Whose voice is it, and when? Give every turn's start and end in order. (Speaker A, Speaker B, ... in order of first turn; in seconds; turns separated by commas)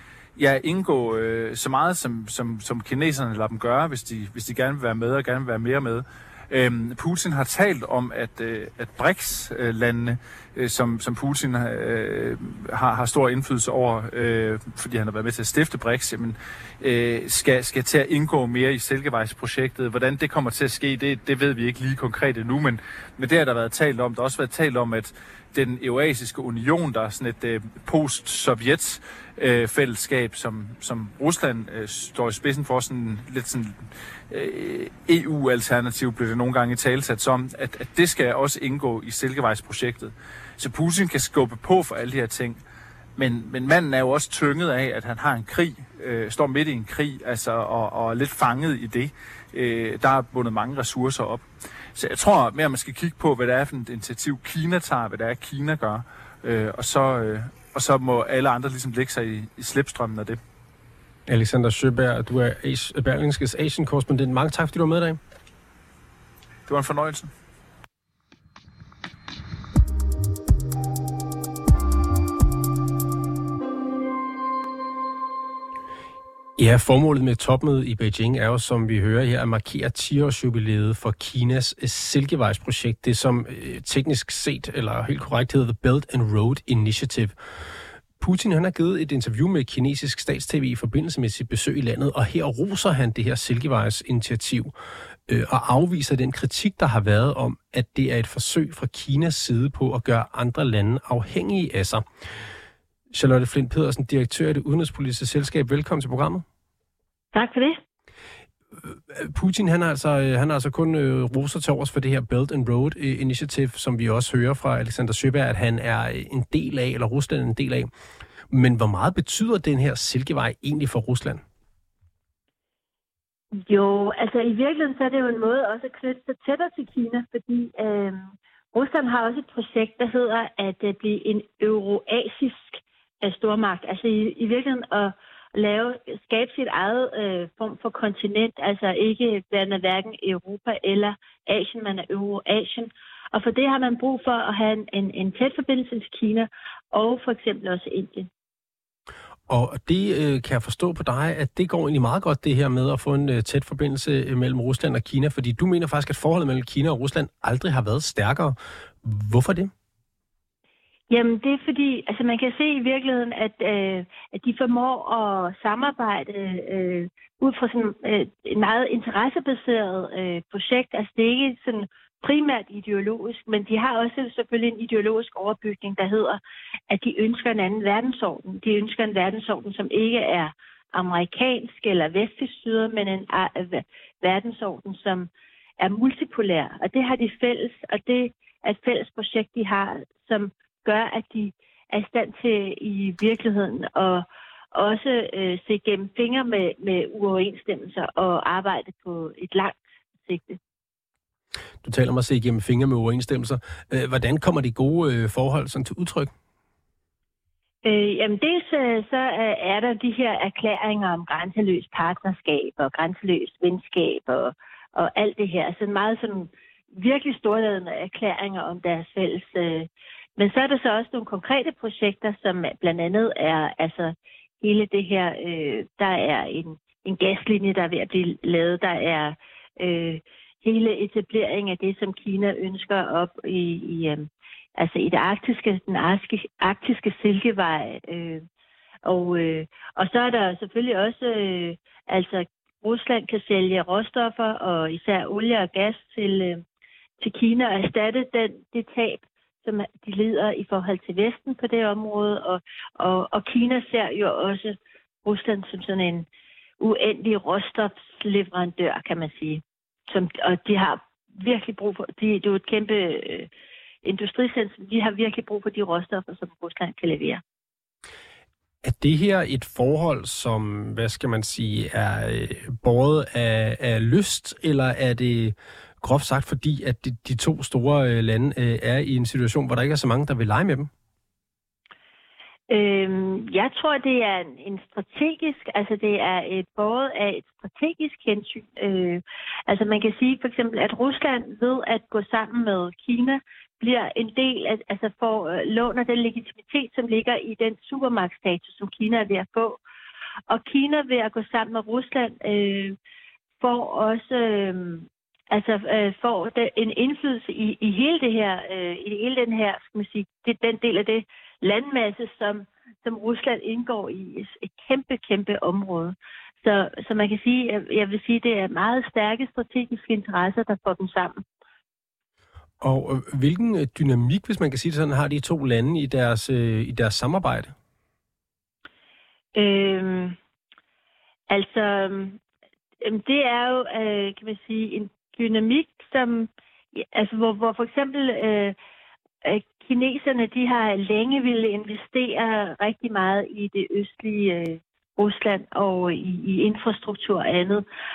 Speaker A: 0.4-42.6, Speaker A: 43.2-60.4, Speaker B: 61.3-65.2, Speaker A: 66.7-67.3, Speaker B: 76.6-87.3, Speaker B: 88.2-94.7, Speaker B: 95.3-102.0, Speaker B: 103.1-106.5, Speaker C: 107.3-107.8, Speaker B: 108.8-117.9, Speaker B: 118.5-121.4, Speaker C: 123.5-148.3, Speaker B: 149.5-159.7, Speaker C: 161.1-200.6, Speaker B: 201.8-206.3, Speaker C: 207.8-238.4, Speaker C: 239.1-246.6, Speaker C: 247.2-256.3, Speaker C: 256.8-263.5, Speaker C: 264.0-267.4, Speaker B: 268.8-280.9, Speaker C: 282.7-299.8, Speaker C: 300.5-303.0, Speaker C: 303.6-321.4, Speaker B: 322.8-327.7, Speaker C: 329.6-330.4, Speaker C: 331.5-332.4, Speaker C: 333.0-338.8, Speaker C: 339.4-347.9